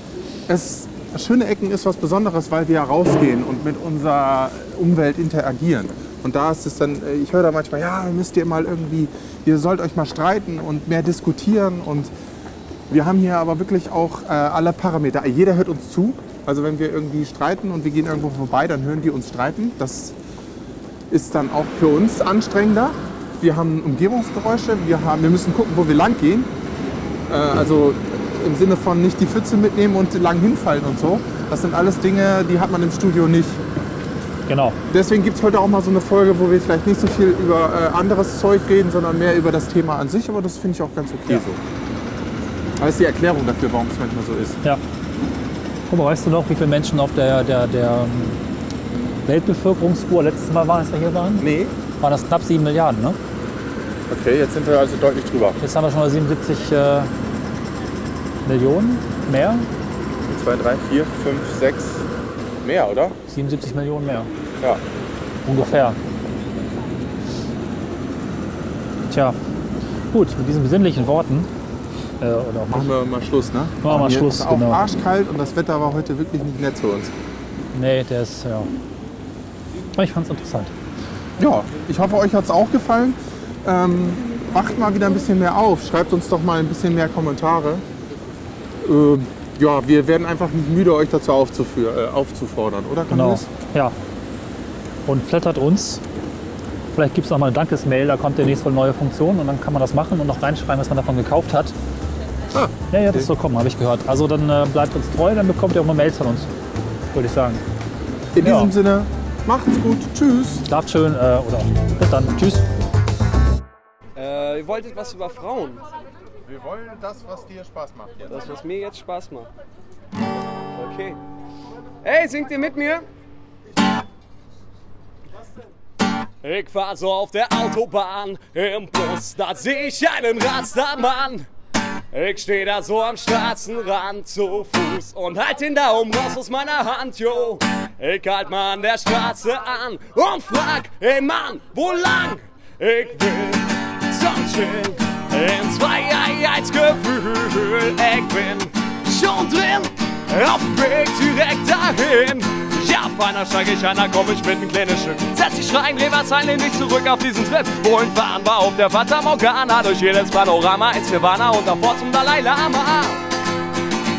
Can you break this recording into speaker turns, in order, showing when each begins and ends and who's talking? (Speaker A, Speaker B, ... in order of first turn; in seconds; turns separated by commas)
Speaker A: 0.5-12.1, Speaker A: 12.9-20.2, Speaker A: 21.1-26.5, Speaker A: 27.3-33.6, Speaker B: 34.5-34.8, Speaker A: 34.9-41.6, Speaker A: 42.8-44.6, Speaker B: 45.9-48.4, Speaker B: 49.2-51.5, Speaker A: 51.4-51.7, Speaker B: 52.0-53.2, Speaker A: 54.1-55.6, Speaker B: 55.6-57.1, Speaker B: 58.4-59.7, Speaker A: 60.2-62.0, Speaker A: 62.6-63.2, Speaker B: 63.3-64.3, Speaker B: 65.5-66.0, Speaker B: 69.1-69.4, Speaker B: 70.1-71.5, Speaker B: 72.2-72.9, Speaker A: 72.7-77.1, Speaker B: 73.8-74.9, Speaker B: 77.7-78.7, Speaker B: 80.0-80.7, Speaker A: 81.4-87.8, Speaker A: 88.8-93.5, Speaker B: 93.1-94.0, Speaker B: 95.1-96.0, Speaker B: 96.9-101.8, Speaker A: 102.5-103.3, Speaker B: 102.9-106.5, Speaker B: 107.1-107.6, Speaker A: 108.3-110.7, Speaker B: 108.4-108.7, Speaker B: 110.7-112.7, Speaker C: 114.2-115.8, Speaker A: 116.5-118.4, Speaker C: 118.3-119.5, Speaker C: 120.8-121.2, Speaker C: 122.0-123.0, Speaker C: 126.4-131.5, Speaker C: 132.1-163.2